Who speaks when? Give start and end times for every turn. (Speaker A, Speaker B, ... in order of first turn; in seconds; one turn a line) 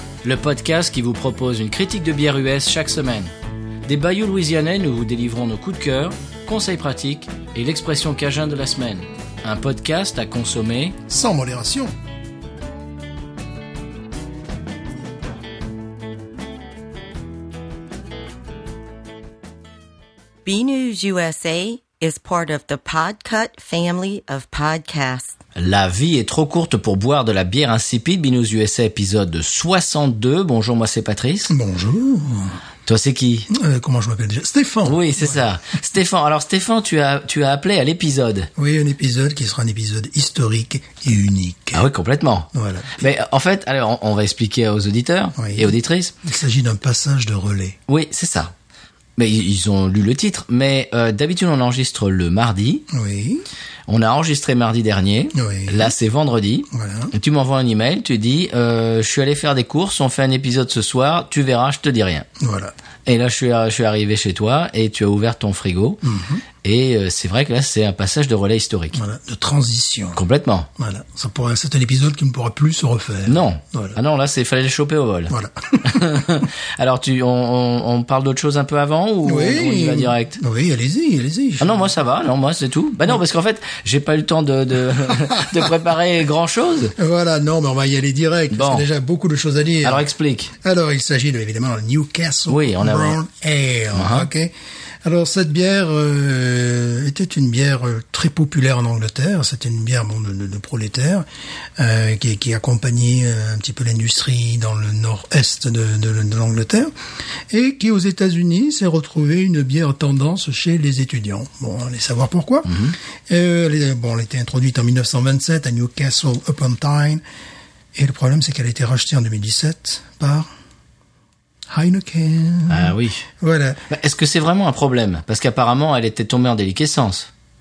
Speaker A: 0.2-3.3
Speaker A: 3.9-11.0
Speaker B: 11.1-11.9
Speaker C: 20.4-25.3
Speaker A: 25.6-31.5
Speaker B: 31.5-32.6
Speaker A: 32.9-33.5
Speaker B: 33.5-35.5
Speaker A: 34.8-38.5
Speaker B: 38.5-41.9
Speaker A: 41.7-46.1
Speaker B: 42.5-43.1
Speaker B: 45.4-47.8
Speaker A: 47.9-48.5
Speaker A: 49.2-52.8
Speaker B: 52.9-53.4
Speaker A: 53.9-62.2
Speaker B: 55.3-55.9
Speaker B: 56.7-57.1
Speaker B: 62.4-62.7
Speaker A: 63.0-66.0
Speaker B: 66.0-66.4
Speaker A: 66.6-69.0
Speaker B: 68.9-70.2
Speaker A: 70.1-70.7
Speaker B: 70.8-74.0
Speaker A: 73.2-80.4
Speaker B: 75.3-76.0
Speaker B: 79.2-81.9
Speaker A: 81.6-86.9
Speaker B: 85.1-85.7
Speaker B: 87.0-94.5
Speaker A: 88.5-88.9
Speaker A: 89.8-90.5
Speaker A: 92.5-93.2
Speaker A: 93.9-94.3
Speaker B: 95.0-101.2
Speaker B: 101.8-106.9
Speaker B: 107.5-112.8
Speaker A: 112.7-112.9
Speaker B: 113.3-117.2
Speaker B: 117.9-120.5
Speaker B: 121.7-123.8
Speaker A: 122.7-123.2
Speaker A: 123.9-127.3